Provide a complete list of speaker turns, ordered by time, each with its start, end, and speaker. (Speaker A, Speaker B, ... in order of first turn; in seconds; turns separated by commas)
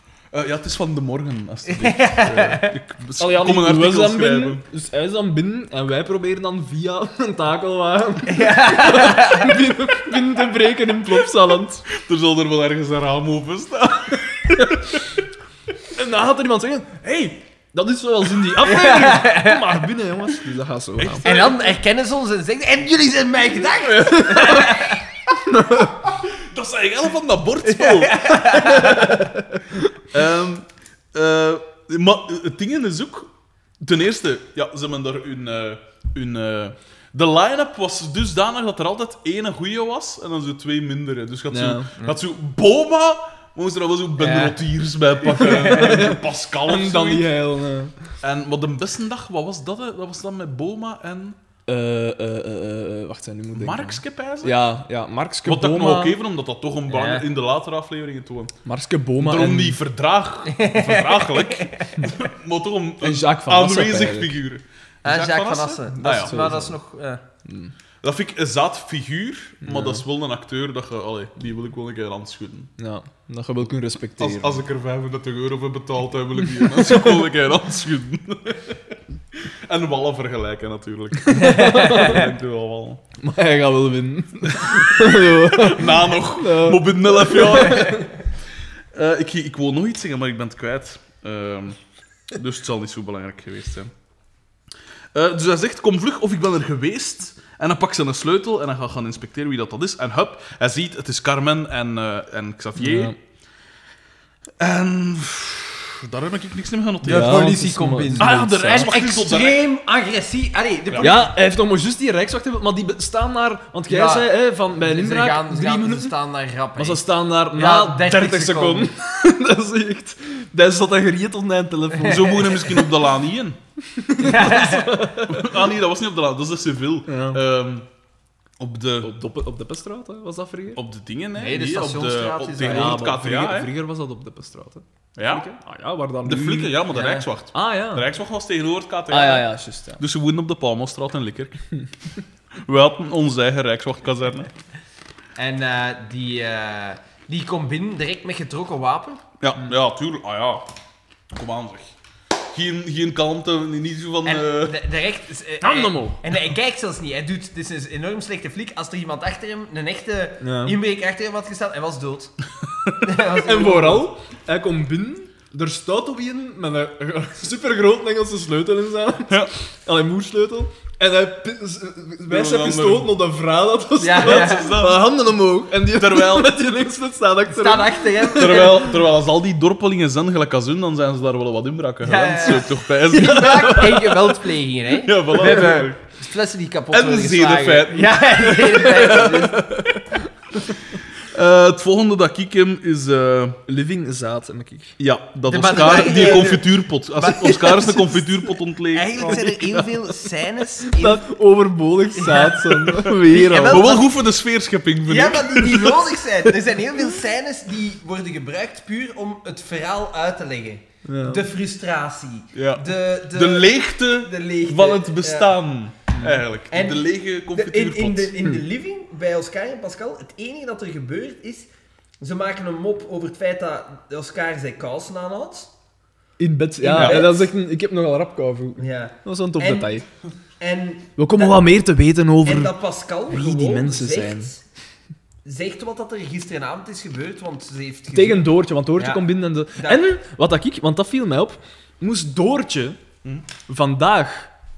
Speaker A: 0.3-4.6, Speaker B: 1.7-2.7, Speaker C: 3.2-11.8, Speaker B: 8.3-9.6, Speaker A: 11.9-15.0, Speaker C: 15.9-21.2, Speaker B: 18.6-19.8, Speaker A: 21.0-21.8, Speaker B: 21.2-25.1, Speaker C: 23.9-26.0, Speaker A: 26.2-28.5, Speaker B: 27.6-29.3, Speaker C: 28.6-29.2, Speaker A: 30.1-47.3, Speaker C: 41.5-41.9, Speaker B: 44.2-44.6, Speaker C: 45.3-48.1, Speaker A: 48.2-51.4, Speaker C: 51.7-56.2, Speaker A: 53.5-54.6, Speaker A: 55.5-58.5, Speaker B: 56.9-57.3, Speaker C: 58.6-59.8, Speaker A: 59.2-66.5, Speaker B: 60.5-62.0, Speaker C: 63.0-64.3, Speaker B: 65.0-67.2, Speaker C: 66.1-66.8, Speaker C: 67.5-67.7, Speaker A: 68.0-72.7, Speaker C: 69.6-70.0, Speaker C: 72.8-74.6, Speaker A: 74.2-83.0, Speaker C: 76.6-77.3, Speaker C: 81.3-82.2, Speaker B: 81.4-82.2, Speaker C: 83.2-88.2, Speaker A: 84.4-88.1, Speaker A: 88.9-91.8, Speaker A: 92.3-93.9, Speaker A: 95.1-103.2, Speaker C: 102.8-103.2, Speaker A: 104.6-107.5, Speaker B: 107.0-111.3, Speaker C: 107.0-108.9, Speaker A: 108.2-109.6, Speaker A: 110.9-111.2, Speaker C: 111.0-116.1, Speaker B: 113.9-118.9, Speaker C: 116.8-122.8, Speaker A: 122.0-123.6, Speaker C: 123.9-125.6, Speaker B: 124.2-125.1, Speaker A: 125.2-127.9, Speaker C: 127.1-127.4, Speaker A: 128.6-129.1, Speaker C: 129.0-130.8, Speaker A: 130.8-133.7, Speaker B: 131.4-133.0, Speaker C: 132.6-136.8, Speaker A: 135.2-135.4, Speaker A: 136.2-141.6, Speaker B: 136.9-137.2, Speaker C: 137.5-138.1, Speaker C: 139.1-140.0, Speaker A: 142.6-144.5, Speaker B: 145.4-149.2, Speaker A: 149.4-150.7, Speaker A: 151.3-152.0, Speaker A: 152.5-154.8, Speaker B: 154.2-162.3, Speaker C: 155.6-156.2, Speaker C: 160.4-160.8, Speaker A: 162.6-162.9, Speaker B: 163.0-164.1, Speaker C: 163.3-178.7, Speaker A: 172.3-173.1, Speaker B: 174.0-174.7, Speaker A: 174.2-175.0, Speaker A: 175.9-176.5, Speaker B: 177.5-179.0, Speaker A: 178.4-184.0, Speaker B: 182.0-189.7, Speaker C: 183.4-184.3, Speaker A: 184.9-186.0, Speaker A: 186.9-189.9, Speaker A: 191.2-193.6, Speaker C: 193.7-195.0, Speaker A: 195.0-199.5, Speaker B: 195.5-201.2, Speaker C: 199.2-200.1, Speaker C: 200.8-203.9, Speaker B: 202.2-204.1, Speaker A: 203.0-206.2, Speaker B: 205.1-215.5, Speaker C: 211.1-211.4, Speaker A: 212.5-218.3, Speaker C: 216.2-216.4, Speaker B: 216.7-221.7, Speaker B: 222.2-225.7, Speaker C: 226.4-230.1, Speaker B: 226.8-227.5, Speaker A: 226.9-227.2, Speaker B: 228.8-230.0, Speaker B: 230.6-231.7, Speaker C: 231.2-232.8, Speaker B: 232.4-234.6, Speaker C: 233.3-234.5, Speaker B: 235.4-239.2, Speaker C: 238.1-243.0, Speaker B: 239.8-240.0, Speaker C: 243.7-244.5